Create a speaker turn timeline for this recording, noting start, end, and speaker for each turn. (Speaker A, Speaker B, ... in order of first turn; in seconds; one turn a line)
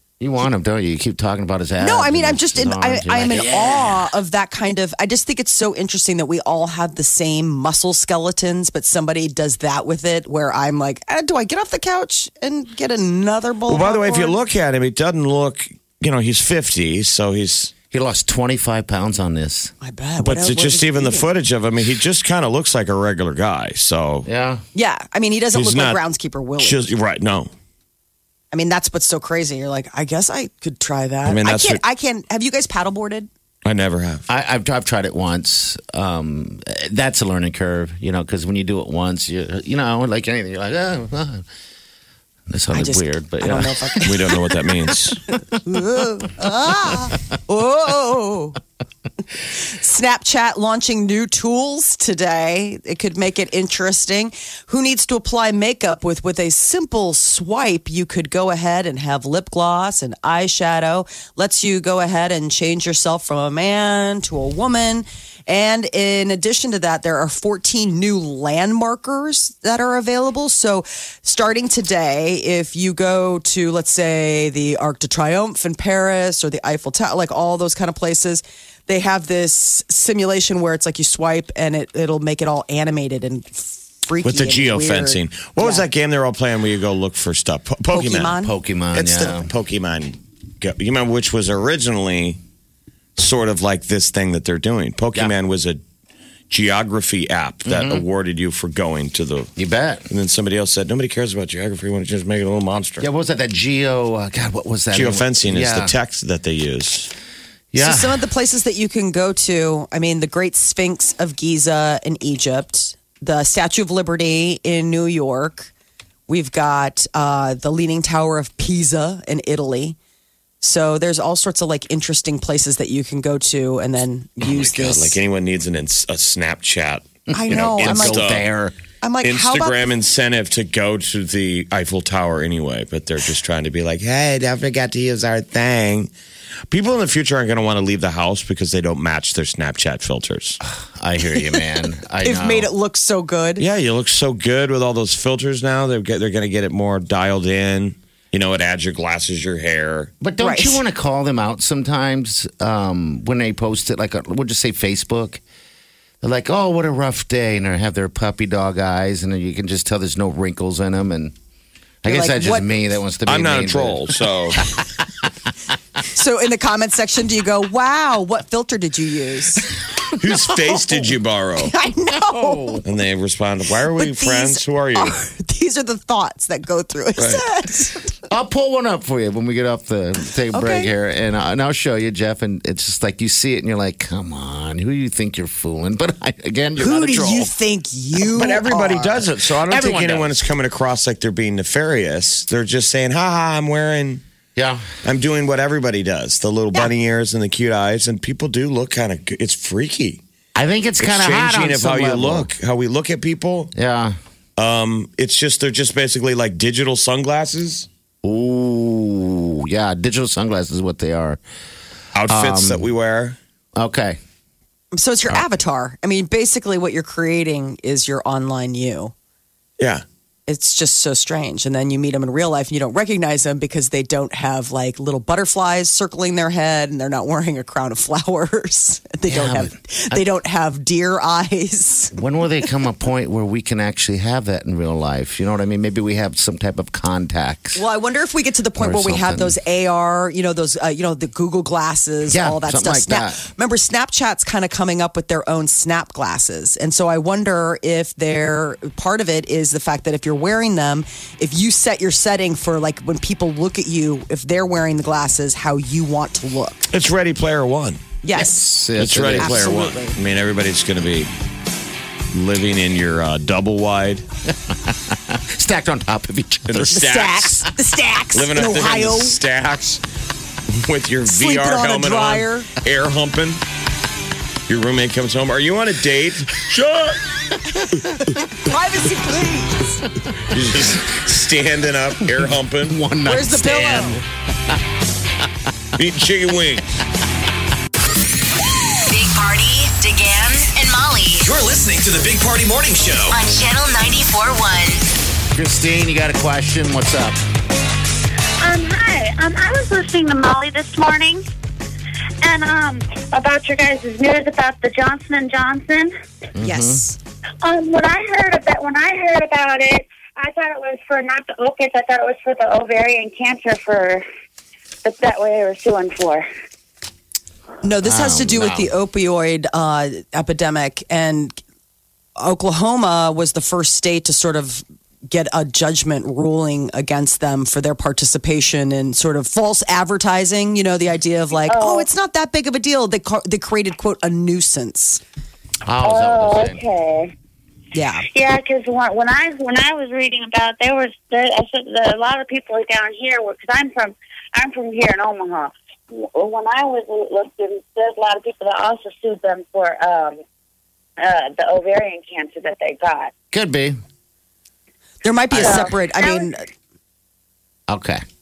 Speaker A: 0.2-4.1
Speaker B: 1.8-14.3
Speaker C: 13.7-17.7
Speaker A: 17.9-19.7
Speaker B: 19.8-21.3
Speaker C: 20.2-24.3
Speaker A: 24.2-24.6
Speaker B: 24.7-26.8
Speaker C: 25.5-26.0
Speaker C: 26.6-27.5
Speaker B: 28.5-33.3
Speaker C: 31.2-31.8
Speaker C: 33.6-34.2
Speaker A: 34.3-41.5
Speaker A: 42.5-44.9
Speaker B: 42.7-44.4
Speaker C: 44.0-45.2
Speaker B: 45.3-48.6
Speaker B: 49.5-85.8
Speaker C: 84.2-88.3
Speaker B: 87.9-88.5
Speaker A: 88.4-89.5
Speaker C: 88.9-92.4
Speaker C: 93.2-95.8
Speaker C: 96.5-99.5
Speaker A: 97.7-98.0
Speaker A: 99.5-100.0
Speaker C: 100.1-103.0
Speaker A: 103.0-105.9
Speaker C: 104.9-107.1
Speaker A: 107.7-108.2
Speaker B: 107.8-115.7
Speaker B: 116.3-120.0
Speaker B: 120.6-125.2
Speaker C: 124.4-128.4
Speaker A: 127.3-128.7
Speaker B: 127.3-128.3
Speaker B: 129.0-129.8
Speaker C: 129.2-136.1
Speaker C: 136.7-140.6
Speaker A: 140.7-142.7
Speaker B: 142.2-143.6
Speaker C: 143.6-150.1
Speaker A: 150.2-155.4
Speaker B: 150.4-150.8
Speaker A: 156.2-161.3
Speaker A: 162.0-164.8
Speaker B: 162.1-162.7
Speaker C: 163.2-164.6
Speaker B: 166.1-169.7
Speaker C: 170.2-171.7
Speaker B: 171.6-172.8
Speaker A: 172.1-172.8
Speaker C: 172.8-175.2
Speaker B: 173.9-178.1
Speaker C: 177.2-177.4
Speaker A: 178.3-187.1
Speaker B: 180.5-180.9
Speaker C: 186.8-187.5
Speaker B: 186.8-189.2
Speaker C: 188.2-194.2
Speaker A: 189.5-190.3
Speaker A: 194.6-194.9
Speaker C: 195.0-200.2
Speaker A: 200.5-202.5
Speaker C: 201.0-203.7
Speaker A: 203.7-204.2
Speaker C: 204.6-207.9
Speaker A: 208.2-211.4
Speaker C: 212.1-213.4
Speaker A: 212.3-212.9
Speaker A: 213.8-214.2
Speaker B: 214.9-219.1
Speaker C: 219.8-220.0
Speaker B: 220.5-232.2
Speaker A: 229.3-230.2
Speaker A: 232.1-237.8
Speaker B: 237.7-256.9
Speaker A: 238.8-239.6
Speaker A: 242.3-243.4
Speaker C: 256.9-258.0
Speaker B: 258.2-258.8
Speaker A: 258.3-259.8
Speaker C: 259.0-261.3
Speaker B: 259.3-260.2
Speaker C: 262.3-264.2
Speaker A: 264.5-267.0
Speaker C: 266.7-267.7
Speaker B: 266.9-269.4
Speaker C: 268.3-270.0
Speaker C: 270.7-273.6
Speaker B: 271.2-272.7
Speaker C: 274.7-277.1
Speaker A: 276.7-277.1
Speaker B: 277.8-280.0
Speaker C: 280.5-283.0
Speaker A: 282.3-284.2
Speaker B: 283.2-284.2
Speaker C: 285.9-286.8
Speaker D: 289.1-291.5
Speaker E: 291.4-293.4
Speaker D: 293.3-295.1
Speaker A: 295.5-297.4
Speaker F: 298.6-301.4
Speaker F: 302.4-306.1
Speaker A: 306.6-307.0
Speaker B: 306.6-307.2
Speaker F: 307.6-314.2
Speaker F: 315.0-316.4
Speaker B: 317.8-321.6
Speaker A: 318.0-318.9
Speaker B: 322.4-335.2
Speaker F: 331.7-332.1
Speaker A: 335.9-336.8
Speaker F: 336.0-337.3
Speaker B: 337.9-338.3
Speaker F: 338.2-350.4
Speaker F: 351.2-353.3
Speaker A: 353.5-354.0
Speaker B: 355.2-356.6
Speaker F: 355.5-356.5
Speaker A: 357.9-358.2